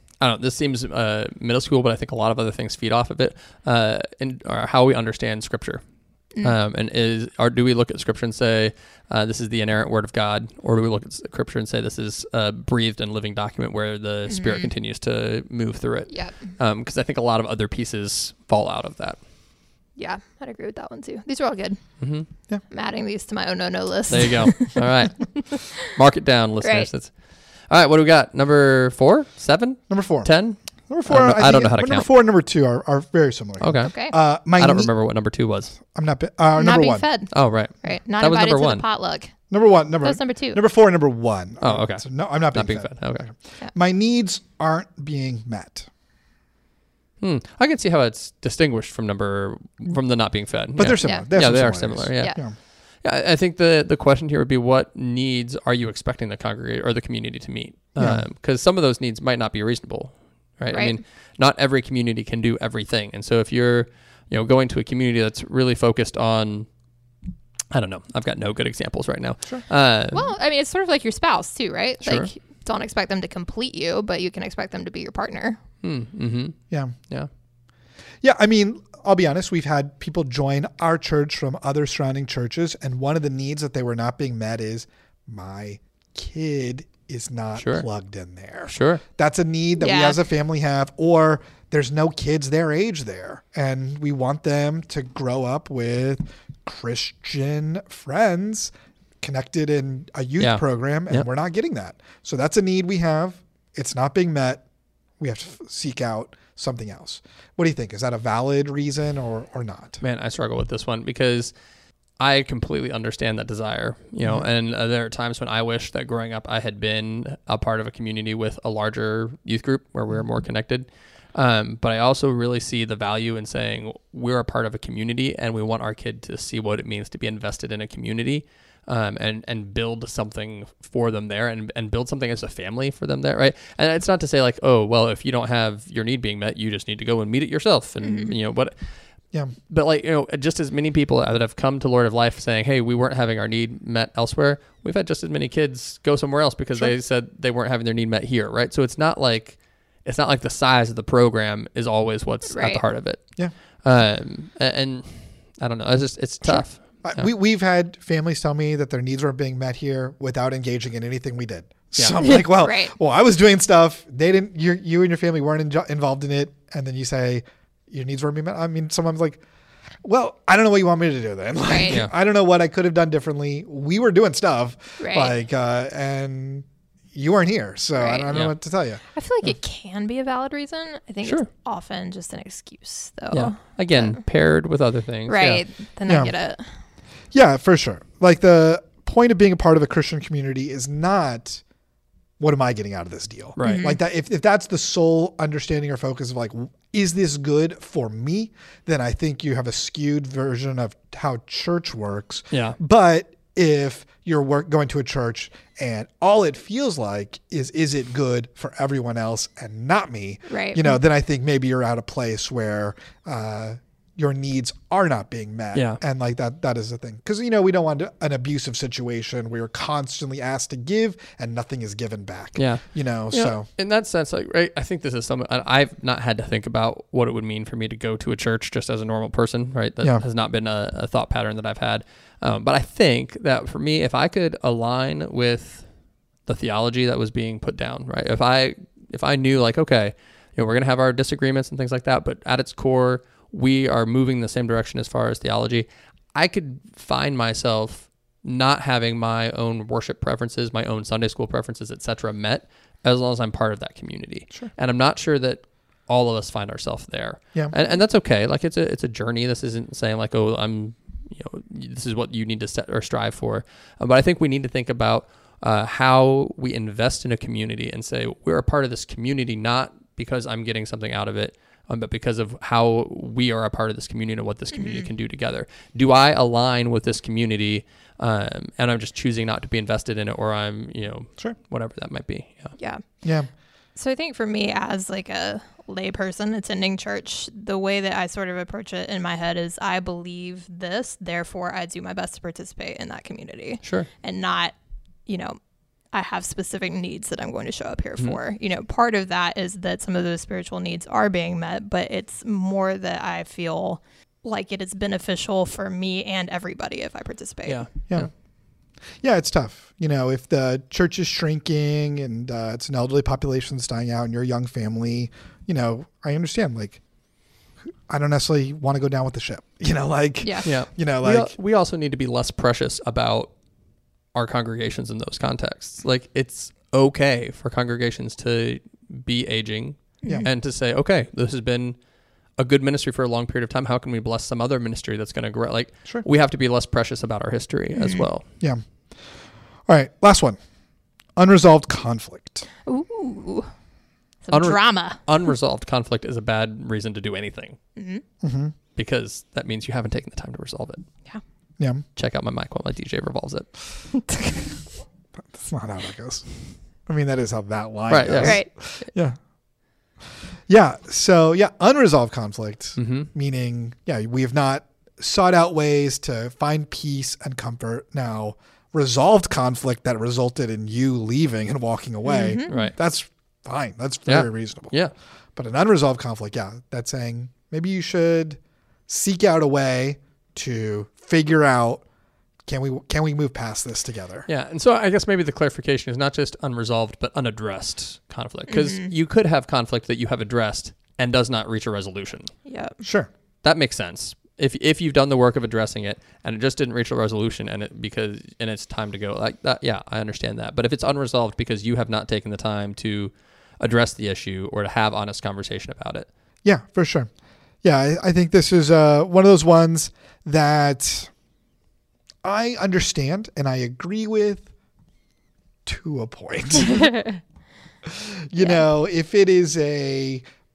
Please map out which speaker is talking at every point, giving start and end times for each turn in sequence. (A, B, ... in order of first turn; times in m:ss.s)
0:00.2-0:05.8 A
0:06.4-0:19.2 A
0:14.3-0:14.7 B
0:16.1-0:16.4 B
0:20.0-0:21.8 B
0:22.0-0:22.3 A
0:22.7-0:24.8 B
0:24.1-0:27.1 A
0:25.3-0:25.7 B
0:26.6-0:26.9 B
0:27.7-0:32.1 A
0:29.9-0:30.3 C
0:30.9-0:34.9 C
0:33.6-0:35.7 A
0:33.8-0:34.1 B
0:35.8-0:37.0 C
0:36.6-0:37.3 B
0:37.3-0:38.8 A
0:37.8-0:39.3 B
0:39.5-0:45.9 C
0:40.0-0:40.6 B
0:41.6-0:43.2 A
0:47.2-1:06.7 A
0:50.8-0:52.5 C
0:51.0-0:51.3 B
0:58.0-0:58.2 C
1:00.7-1:01.0 B
1:07.7-1:10.3 A
1:10.1-1:15.6 B
1:12.0-1:12.3 A
1:15.8-1:16.6 A
1:18.2-1:44.6 C
1:27.6-1:27.8 A
1:28.7-1:29.0 A
1:29.8-1:30.2 B
1:40.4-1:41.2 A
1:45.2-1:50.0 C
1:50.0-1:51.5 A
1:52.2-2:18.7 A
2:18.0-2:18.3 B
2:19.7-2:33.3 A
2:32.5-2:32.8 B
2:33.8-2:37.2 A
2:37.0-2:49.4 C
2:42.2-2:42.9 B
2:50.0-2:59.0 C
2:51.6-2:52.0 B
2:55.0-2:55.3 B
2:57.9-2:58.3 B
2:59.1-3:04.2 B
3:01.2-3:01.5 A
3:03.3-3:05.6 A
3:05.3-3:06.6 B
3:06.1-3:06.3 C
3:07.3-3:11.6 C
3:12.4-3:43.7 C
3:13.6-3:13.9 A
3:13.6-3:14.0 B
3:30.5-3:31.0 B
3:35.7-3:36.0 A
3:42.6-3:55.8 A
3:56.5-4:42.8 A
4:34.7-4:35.0 B
4:42.8-4:43.0 B
4:43.2-4:43.5 C
4:44.0-4:54.7 B
4:53.8-4:54.1 A
4:55.2-4:55.6 B
4:56.1-5:07.8 B
5:07.6-5:08.3 A
5:09.2-5:17.0 C
5:18.1-5:21.5 C
5:20.4-5:20.7 B
5:20.6-5:23.5 A
5:24.3-5:32.0 A
5:32.6-5:38.4 A
5:38.0-5:38.2 B
5:39.9-5:40.6 C
5:41.4-5:42.6 C
5:42.9-5:43.7 B
5:44.4-5:45.2 B
5:44.5-5:47.8 A
5:48.0-5:48.2 B
5:48.4-5:48.7 C
5:49.0-5:51.0 A
5:51.8-5:52.0 C
5:52.2-5:53.7 A
5:54.1-5:54.6 B
5:55.4-5:56.5 C
5:57.1-5:59.4 C
5:58.1-5:58.6 A
5:58.4-5:58.7 B
6:00.7-6:14.9 C
6:03.0-6:03.3 A
6:12.2-6:12.8 B
6:12.7-6:12.9 A
6:14.2-6:15.1 A
6:15.6-6:22.0 C
6:22.6-6:24.5 C
6:24.5-6:32.5 A
6:28.7-6:29.1 B
6:32.6-6:33.0 B
6:33.0-6:33.3 C
6:33.6-6:46.3 A
6:46.6-6:47.3 C
6:47.8-6:51.3 C
6:52.4-6:54.7 C
6:55.8-6:57.2 C
6:56.9-6:57.4 B
6:58.0-7:00.4 C
6:58.6-6:58.8 B